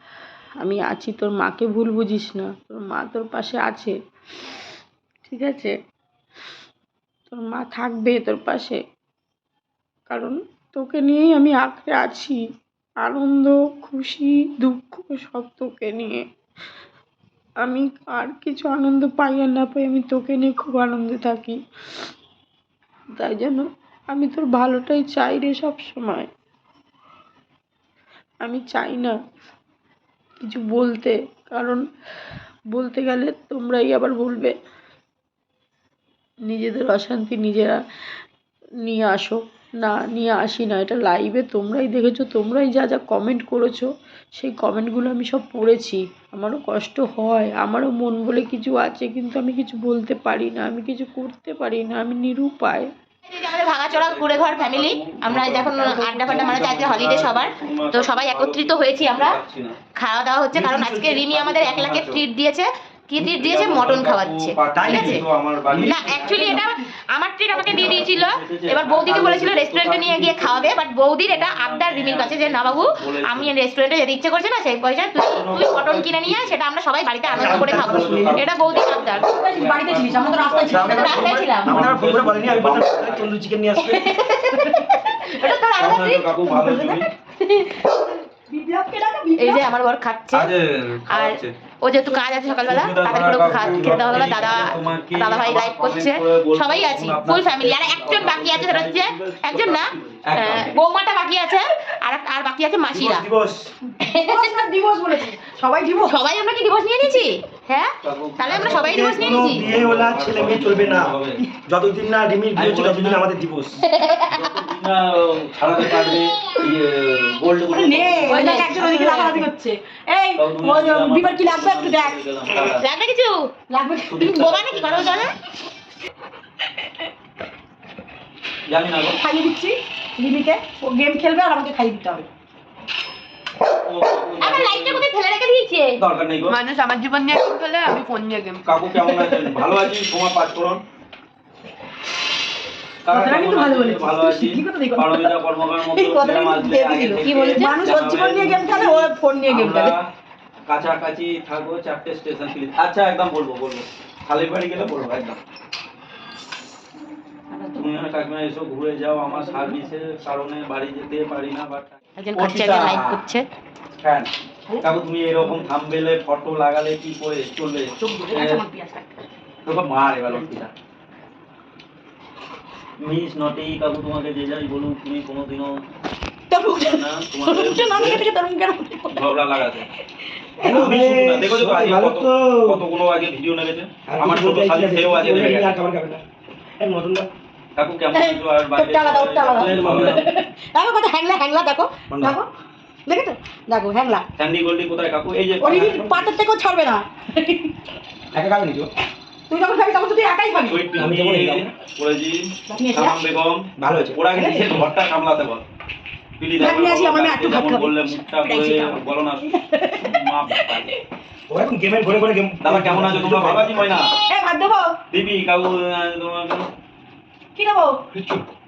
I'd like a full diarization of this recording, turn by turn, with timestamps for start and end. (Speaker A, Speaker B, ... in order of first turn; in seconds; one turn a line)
Speaker A: 0.6-3.9
Speaker A: 5.2-5.7
Speaker A: 7.3-8.8
Speaker A: 10.1-12.4
Speaker A: 13.0-16.2
Speaker A: 17.6-21.6
Speaker A: 23.2-26.3
Speaker A: 28.4-29.1
Speaker A: 30.4-31.8
Speaker A: 32.7-34.5
Speaker A: 36.5-37.8
Speaker A: 38.8-52.9
Speaker B: 53.3-59.4
Speaker C: 53.8-59.8
Speaker D: 56.0-56.4
Speaker B: 60.0-65.2
Speaker E: 60.5-61.1
Speaker C: 60.7-62.2
Speaker C: 63.2-66.6
Speaker E: 64.7-66.5
Speaker B: 65.8-79.2
Speaker C: 67.5-73.5
Speaker C: 75.2-76.6
Speaker C: 77.2-83.4
Speaker E: 77.3-78.5
Speaker D: 79.2-81.2
Speaker E: 80.7-83.9
Speaker B: 80.8-81.9
Speaker D: 83.8-85.3
Speaker B: 84.1-84.8
Speaker B: 85.3-86.3
Speaker C: 85.8-87.1
Speaker D: 86.5-89.6
Speaker B: 89.4-90.5
Speaker C: 90.3-91.5
Speaker B: 91.1-103.3
Speaker C: 92.6-100.7
Speaker E: 102.9-103.7
Speaker B: 104.0-104.6
Speaker D: 104.1-106.2
Speaker B: 106.1-109.7
Speaker C: 108.0-111.4
Speaker E: 108.5-113.8
Speaker C: 112.5-113.3
Speaker B: 113.9-114.5
Speaker C: 114.3-119.1
Speaker D: 117.7-122.2
Speaker B: 118.2-119.4
Speaker C: 120.4-122.9
Speaker B: 122.8-123.5
Speaker D: 123.7-124.7
Speaker C: 124.1-125.3
Speaker B: 124.3-125.3
Speaker C: 128.7-129.2
Speaker D: 129.2-132.2
Speaker C: 133.8-135.1
Speaker B: 134.4-136.0
Speaker C: 136.0-136.6
Speaker F: 136.5-138.6
Speaker C: 138.7-140.8
Speaker C: 143.0-150.1
Speaker D: 143.1-149.9
Speaker C: 150.7-155.4
Speaker D: 157.5-157.9
Speaker C: 157.8-163.2
Speaker D: 159.4-159.8
Speaker B: 162.2-163.4
Speaker C: 164.0-164.3
Speaker C: 164.8-168.6
Speaker D: 168.0-169.1
Speaker C: 169.6-170.7
Speaker C: 173.0-175.8
Speaker D: 176.5-179.3
Speaker C: 176.7-178.3
Speaker C: 179.1-179.9
Speaker E: 180.6-182.8
Speaker C: 180.6-185.8
Speaker E: 184.1-186.2
Speaker E: 186.8-187.3
Speaker C: 187.8-190.3
Speaker D: 188.1-192.5
Speaker E: 189.8-190.2
Speaker C: 192.1-192.4
Speaker D: 193.1-194.2
Speaker C: 194.4-196.3
Speaker D: 195.6-197.7
Speaker E: 198.3-198.9
Speaker D: 199.5-201.0
Speaker C: 200.7-205.6
Speaker E: 201.0-201.7
Speaker D: 202.7-203.2
Speaker E: 203.8-204.2
Speaker D: 204.3-204.8
Speaker C: 206.4-210.9
Speaker D: 206.6-210.9
Speaker E: 211.5-214.0
Speaker C: 212.6-214.1
Speaker D: 214.2-214.9
Speaker C: 215.1-216.7
Speaker D: 217.6-218.0
Speaker E: 218.1-218.4